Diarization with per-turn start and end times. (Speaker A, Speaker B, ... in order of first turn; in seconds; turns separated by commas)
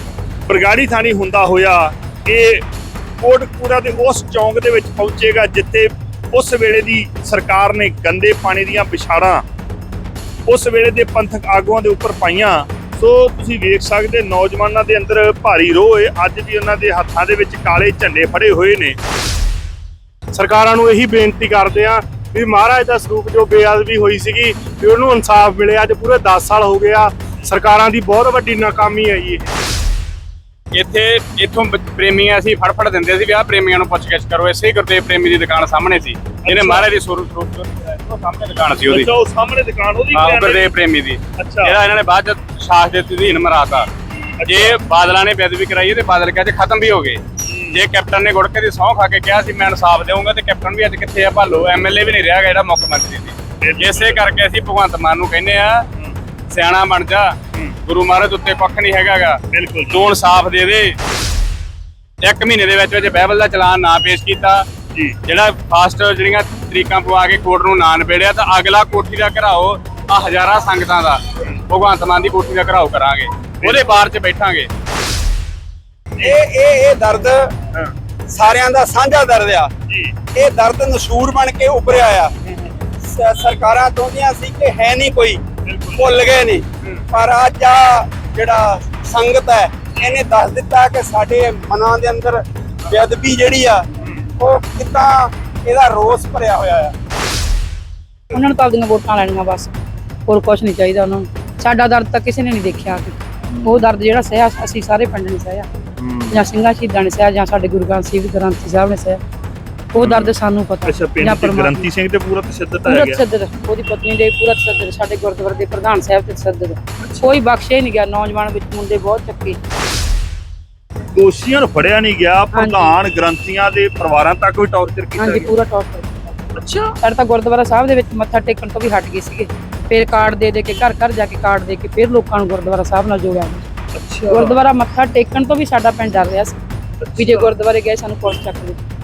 Speaker A: 0.5-2.6, Speaker A: 3.2-9.4, Speaker A: 10.5-19.0, Speaker B: 20.3-29.5, Speaker C: 30.7-39.1, Speaker A: 36.4-36.9, Speaker A: 38.8-40.7, Speaker C: 40.1-43.9, Speaker A: 41.4-41.8, Speaker A: 44.4-44.8, Speaker C: 44.4-55.9, Speaker A: 47.4-47.8, Speaker A: 53.6-54.2, Speaker C: 56.5-61.0, Speaker A: 59.5-60.0, Speaker C: 62.2-64.7, Speaker C: 65.2-74.7, Speaker A: 73.6-74.0, Speaker D: 76.2-77.5, Speaker D: 78.3-79.7, Speaker A: 79.9-80.2, Speaker D: 80.3-82.3, Speaker D: 83.0-85.4, Speaker A: 85.7-86.2, Speaker D: 85.9-96.9, Speaker E: 98.3-99.7, Speaker E: 100.3-105.7, Speaker A: 103.5-103.8, Speaker A: 106.0-106.4, Speaker E: 106.3-109.2, Speaker E: 109.9-111.9, Speaker A: 110.0-110.3, Speaker A: 110.9-113.2, Speaker E: 112.9-119.6, Speaker A: 117.0-117.3, Speaker A: 121.1-125.5, Speaker E: 122.5-123.0, Speaker E: 125.2-126.4, Speaker A: 126.6-127.0, Speaker E: 127.0-133.7, Speaker A: 133.9-134.6, Speaker E: 134.3-136.6, Speaker A: 137.0-137.5, Speaker E: 137.2-138.8